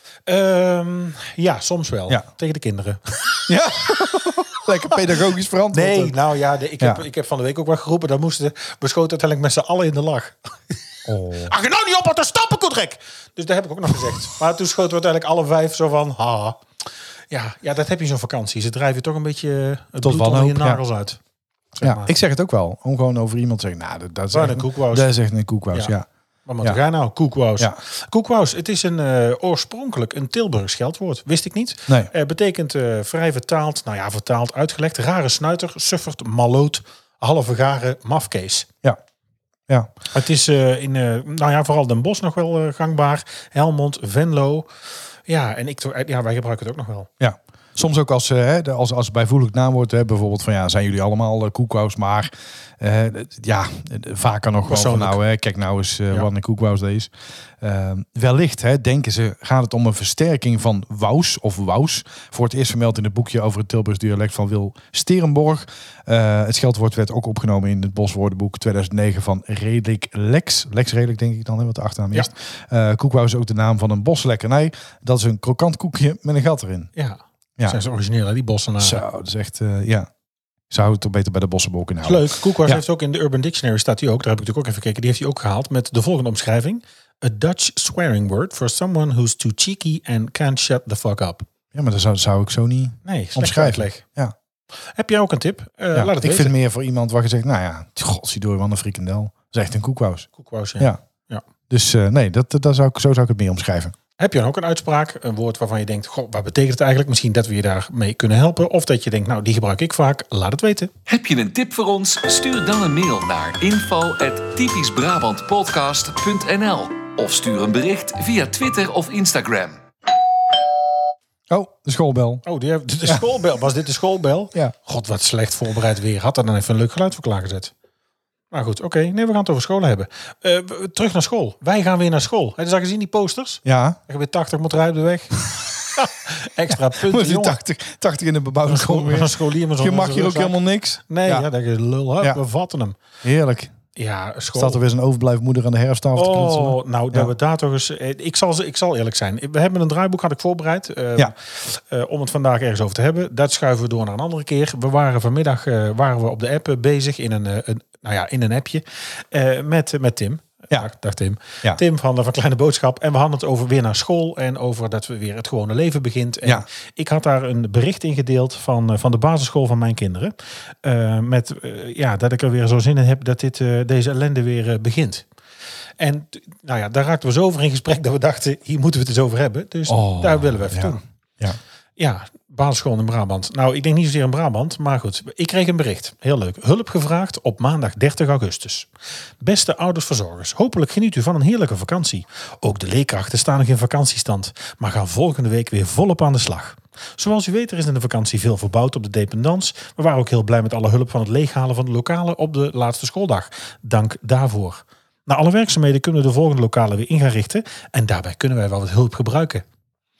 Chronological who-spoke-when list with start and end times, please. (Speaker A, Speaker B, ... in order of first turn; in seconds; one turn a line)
Speaker A: 0.3-3.5
Speaker B: 3.5-6.2
Speaker A: 5.7-10.7
Speaker B: 11.1-11.5
Speaker A: 11.4-16.6
Speaker A: 17.3-21.2
Speaker B: 20.0-20.8
Speaker A: 21.7-22.1
Speaker B: 21.8-26.1
Speaker A: 24.3-25.1
Speaker A: 26.5-38.7
Speaker A: 40.1-44.7
Speaker A: 45.3-47.1
Speaker B: 47.2-76.9
Speaker A: 54.7-55.2
Speaker A: 77.0-79.0
Speaker B: 78.8-80.1
Speaker B: 80.7-82.8
Speaker A: 82.0-91.5
Speaker B: 91.7-94.3
Speaker A: 93.0-94.0
Speaker A: 95.0-96.5
Speaker B: 95.9-100.3
Speaker A: 100.4-101.4
Speaker B: 101.7-104.0
Speaker A: 104.2-110.9
Speaker C: 111.1-119.8
Speaker B: 121.5-122.4
Speaker A: 122.5-127.7
Speaker A: 128.5-135.4
Speaker B: 133.7-134.0
Speaker A: 136.0-137.6
Speaker B: 136.7-141.5
Speaker A: 138.7-143.0
Speaker B: 143.2-143.7
Speaker A: 143.9-144.8
Speaker B: 144.5-147.3
Speaker A: 146.2-175.3
Speaker A: 176.0-181.0
Speaker B: 179.9-181.6
Speaker A: 182.0-188.9
Speaker A: 189.4-209.6